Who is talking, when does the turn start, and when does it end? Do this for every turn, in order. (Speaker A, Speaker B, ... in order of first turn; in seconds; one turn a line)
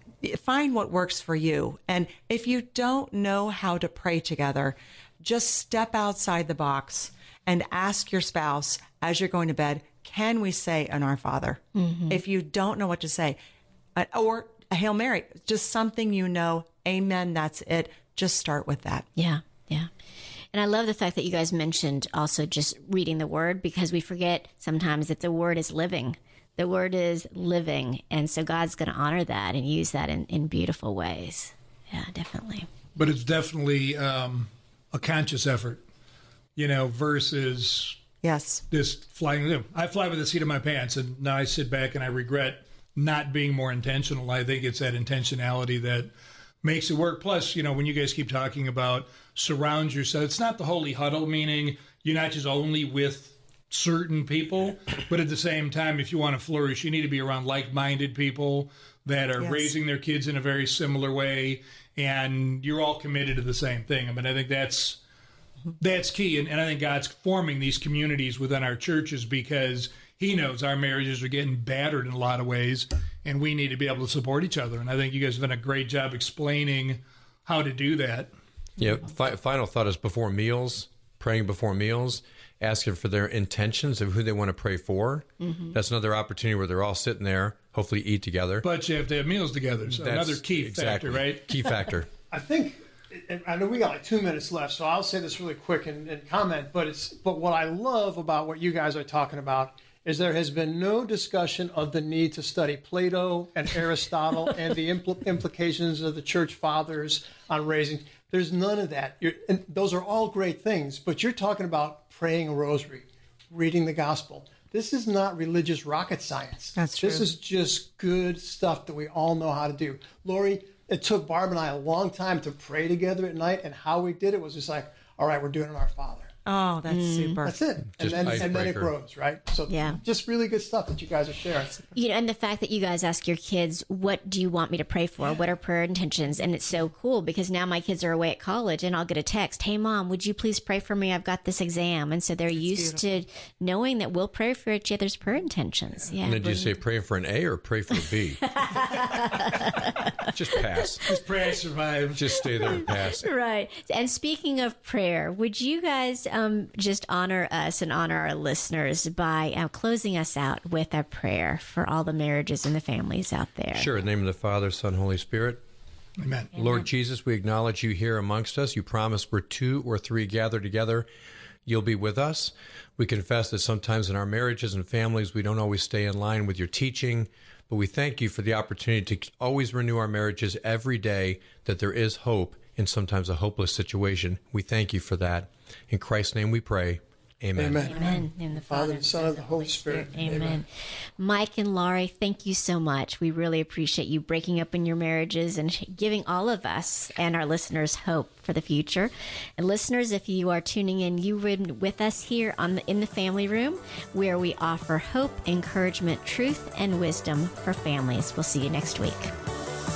Speaker A: 0.2-13.4
Speaker B: 11.8-12.2
Speaker A: 14.0-19.1
Speaker B: 19.2-19.9
Speaker B: 20.5-32.7
Speaker C: 33.0-35.8
Speaker C: 36.6-38.0
Speaker A: 38.2-38.6
Speaker C: 38.7-46.1
Speaker C: 46.6-65.0
Speaker A: 59.4-59.7
Speaker C: 65.8-78.3
Speaker D: 78.8-88.7
Speaker B: 85.4-85.8
Speaker C: 88.6-91.5
Speaker D: 89.9-92.1
Speaker E: 92.3-126.3
Speaker A: 116.8-117.3
Speaker A: 126.5-127.6
Speaker B: 126.9-127.4
Speaker E: 127.4-131.9
Speaker D: 128.0-128.9
Speaker B: 129.7-130.0
Speaker B: 131.9-146.7
Speaker A: 142.5-143.2
Speaker D: 146.2-151.1
Speaker B: 148.5-150.3
Speaker C: 151.1-152.3
Speaker D: 152.2-153.3
Speaker B: 152.7-163.9
Speaker D: 163.7-165.6
Speaker C: 166.2-166.5
Speaker D: 166.5-171.1
Speaker D: 171.7-188.1
Speaker E: 187.6-190.6
Speaker B: 187.8-190.7
Speaker B: 191.2-209.3